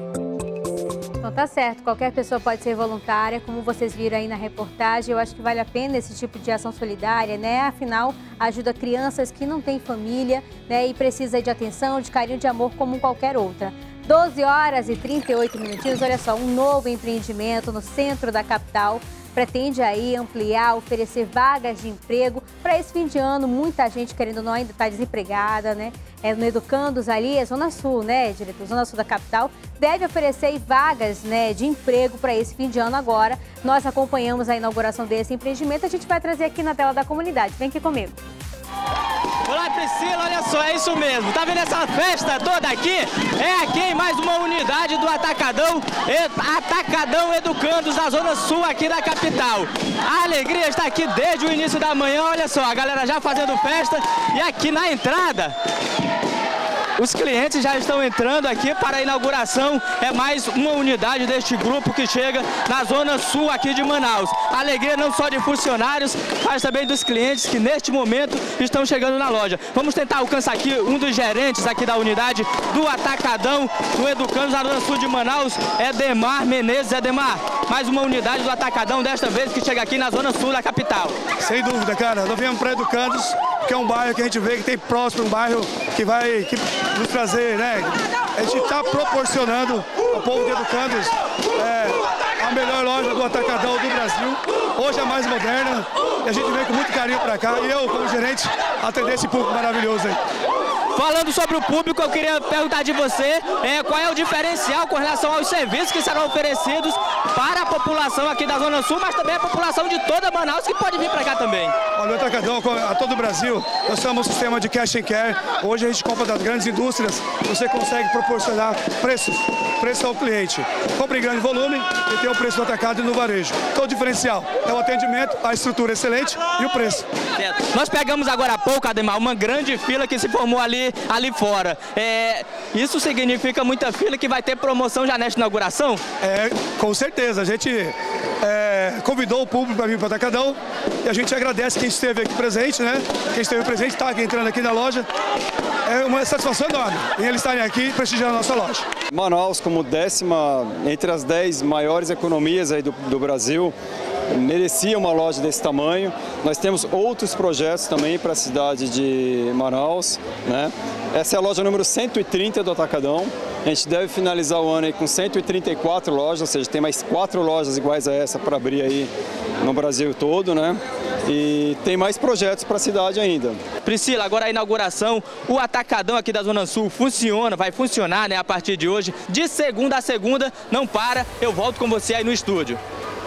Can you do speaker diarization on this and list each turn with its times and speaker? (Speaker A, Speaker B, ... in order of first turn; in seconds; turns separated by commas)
Speaker A: 1.2-38.2, Speaker B: 39.5-55.5, Speaker B: 57.0-81.2, Speaker C: 81.4-100.2, Speaker B: 100.9-111.8, Speaker C: 112.0-127.0, Speaker B: 127.4-136.0, Speaker C: 136.2-145.1, Speaker C: 145.9-148.8, Speaker D: 149.1-153.7, Speaker D: 154.3-173.6, Speaker B: 173.8-182.8